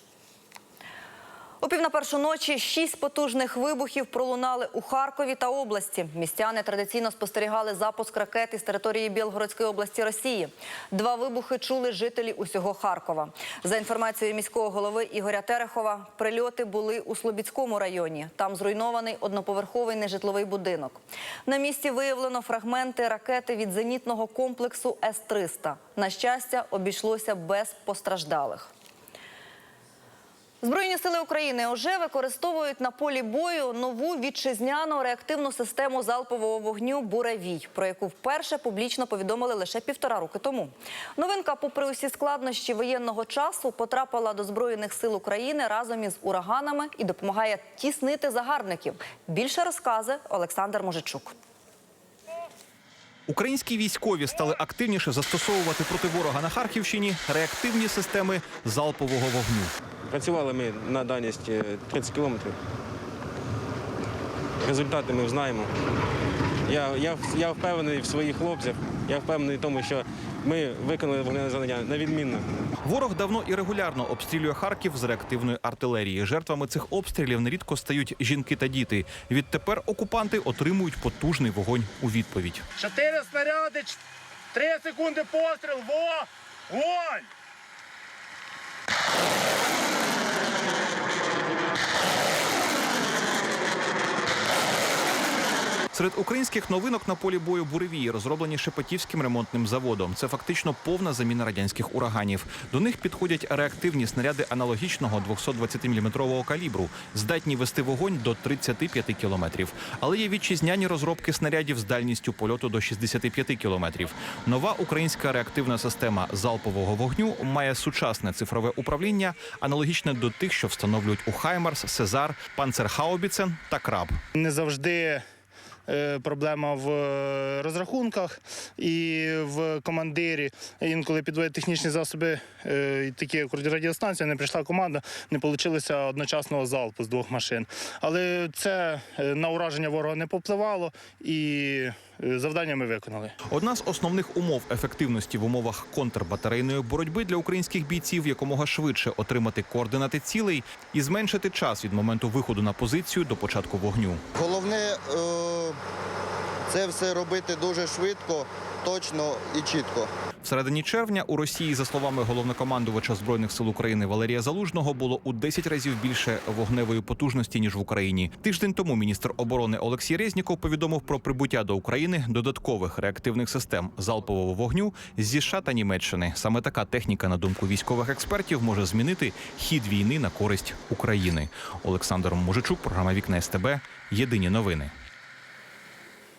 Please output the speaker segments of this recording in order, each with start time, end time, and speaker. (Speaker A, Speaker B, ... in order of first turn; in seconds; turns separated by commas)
Speaker A: 1.6-28.7, Speaker A: 30.6-51.3, Speaker B: 53.3-59.7, Speaker C: 60.1-62.6, Speaker C: 64.6-65.7, Speaker C: 66.7-72.5, Speaker B: 72.8-82.6, Speaker D: 82.8-84.0, Speaker D: 84.5-87.3, Speaker B: 95.9-124.1, Speaker D: 124.3-125.2, Speaker D: 125.9-143.3, Speaker B: 143.5-154.2, Speaker E: 154.3-155.8, Speaker E: 156.7-160.1, Speaker B: 160.4-184.9